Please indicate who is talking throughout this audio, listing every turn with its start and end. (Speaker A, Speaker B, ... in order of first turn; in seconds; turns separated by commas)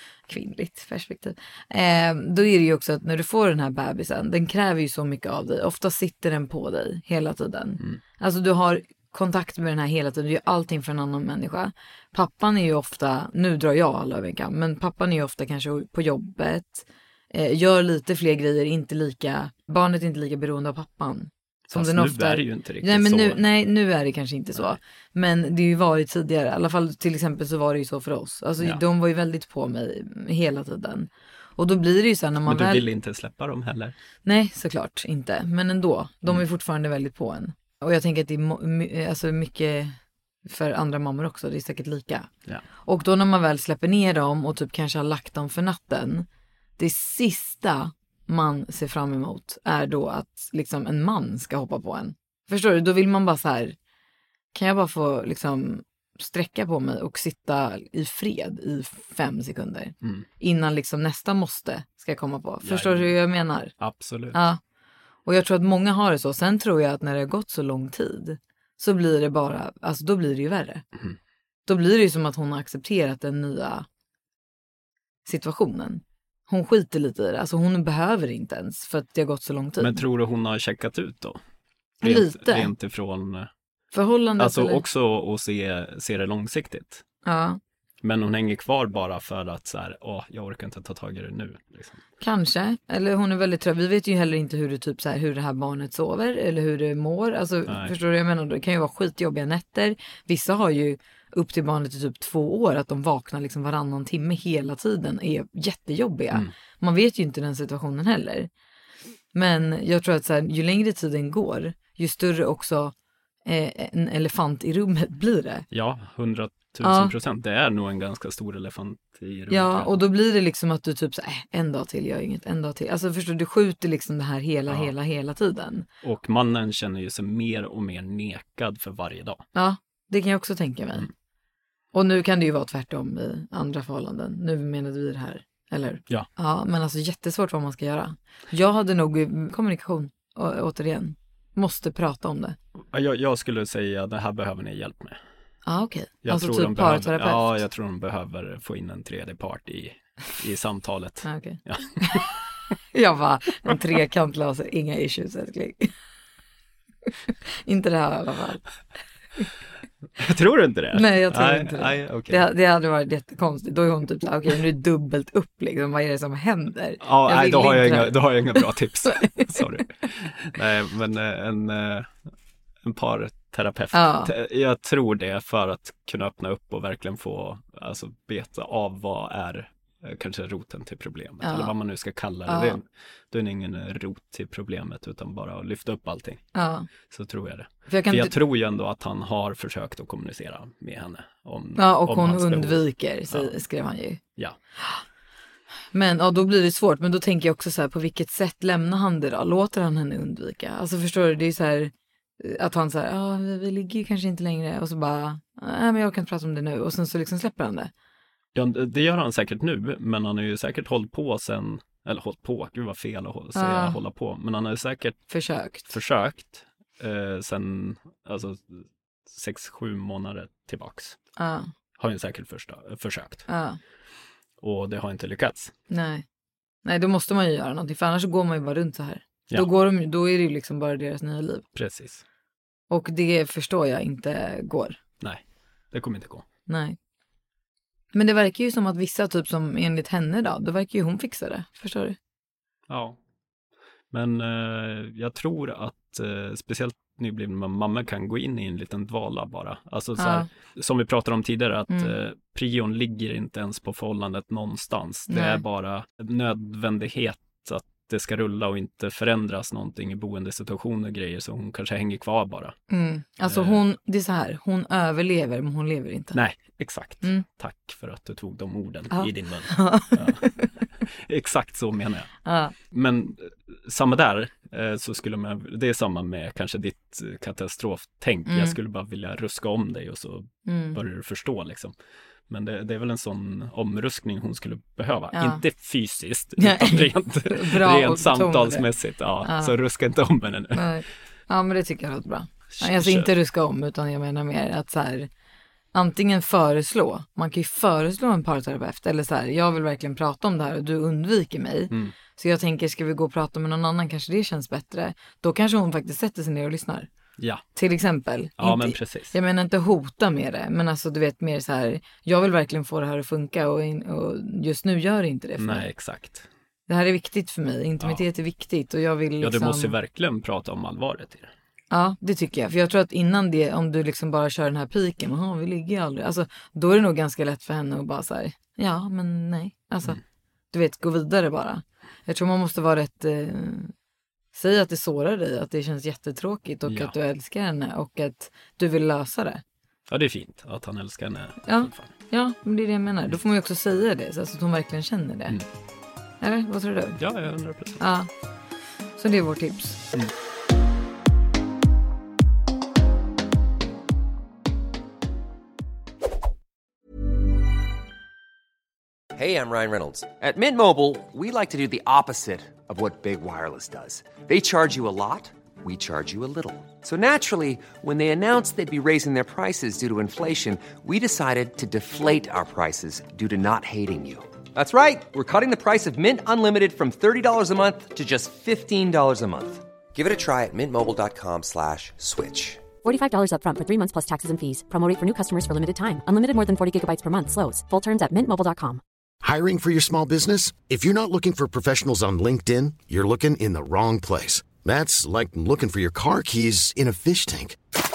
Speaker A: 0.3-32.8, Speaker B: 21.7-23.4, Speaker B: 32.5-33.9, Speaker A: 34.2-42.3, Speaker A: 42.8-46.2, Speaker A: 46.8-53.8, Speaker A: 54.5-63.7, Speaker B: 62.6-63.1, Speaker B: 63.8-64.4, Speaker A: 64.3-64.6, Speaker A: 65.2-70.8, Speaker A: 71.7-73.8, Speaker A: 75.2-80.0, Speaker B: 79.8-81.4, Speaker B: 82.0-83.5, Speaker A: 82.0-82.7, Speaker A: 83.9-84.8, Speaker B: 84.4-87.0, Speaker A: 87.2-87.6, Speaker B: 88.0-92.0, Speaker A: 92.2-108.5, Speaker B: 97.7-97.9, Speaker A: 109.3-112.9, Speaker A: 113.5-115.7, Speaker B: 115.7-120.0, Speaker A: 116.8-117.1, Speaker A: 119.5-125.9, Speaker B: 124.7-124.9, Speaker B: 126.0-129.4, Speaker A: 129.5-131.1, Speaker A: 131.9-142.6, Speaker B: 142.9-145.2, Speaker A: 145.6-147.6, Speaker B: 146.2-152.3, Speaker A: 151.2-152.3, Speaker A: 152.9-155.9, Speaker A: 157.6-158.6, Speaker B: 160.2-162.4, Speaker A: 160.9-169.7, Speaker B: 167.0-172.1, Speaker B: 172.8-186.4, Speaker A: 173.9-174.3, Speaker A: 181.4-181.7, Speaker A: 182.5-182.8, Speaker A: 186.5-186.9, Speaker B: 187.1-193.5, Speaker A: 187.9-188.3, Speaker A: 191.8-194.2, Speaker A: 195.9-207.9, Speaker B: 208.5-215.2, Speaker A: 213.5-214.0, Speaker A: 215.3-215.9, Speaker B: 215.9-221.2, Speaker A: 221.4-221.7, Speaker B: 222.0-223.4, Speaker A: 223.5-223.8, Speaker B: 224.6-225.7, Speaker A: 225.9-226.2, Speaker A: 226.8-231.6, Speaker B: 231.7-232.2, Speaker A: 232.9-235.0, Speaker B: 235.9-236.4, Speaker A: 236.7-237.0, Speaker A: 238.1-242.2, Speaker B: 242.9-243.2, Speaker B: 244.1-262.7, Speaker A: 250.2-250.5, Speaker A: 255.3-255.6, Speaker A: 262.9-266.4, Speaker B: 263.4-263.8, Speaker B: 266.3-270.4, Speaker A: 269.1-270.7, Speaker B: 271.1-272.3, Speaker A: 272.4-272.7, Speaker B: 272.9-281.9, Speaker A: 278.5-278.8, Speaker A: 280.6-281.0, Speaker B: 282.5-290.9, Speaker A: 285.3-285.6, Speaker A: 286.6-288.9, Speaker A: 289.4-289.7, Speaker A: 290.7-295.3, Speaker B: 292.7-293.3, Speaker A: 295.9-307.1, Speaker A: 307.8-315.9, Speaker B: 308.6-309.3, Speaker B: 315.6-316.5, Speaker A: 316.9-319.9, Speaker B: 319.4-321.5, Speaker A: 321.9-330.2, Speaker A: 330.7-333.9, Speaker A: 334.5-339.6, Speaker B: 336.9-337.1, Speaker B: 340.1-342.1, Speaker A: 341.6-345.6, Speaker A: 346.4-347.2, Speaker B: 347.2-348.0, Speaker A: 348.0-348.3, Speaker A: 349.2-350.0, Speaker C: 359.3-382.9, Speaker D: 383.0-389.0, Speaker E: 389.4-397.8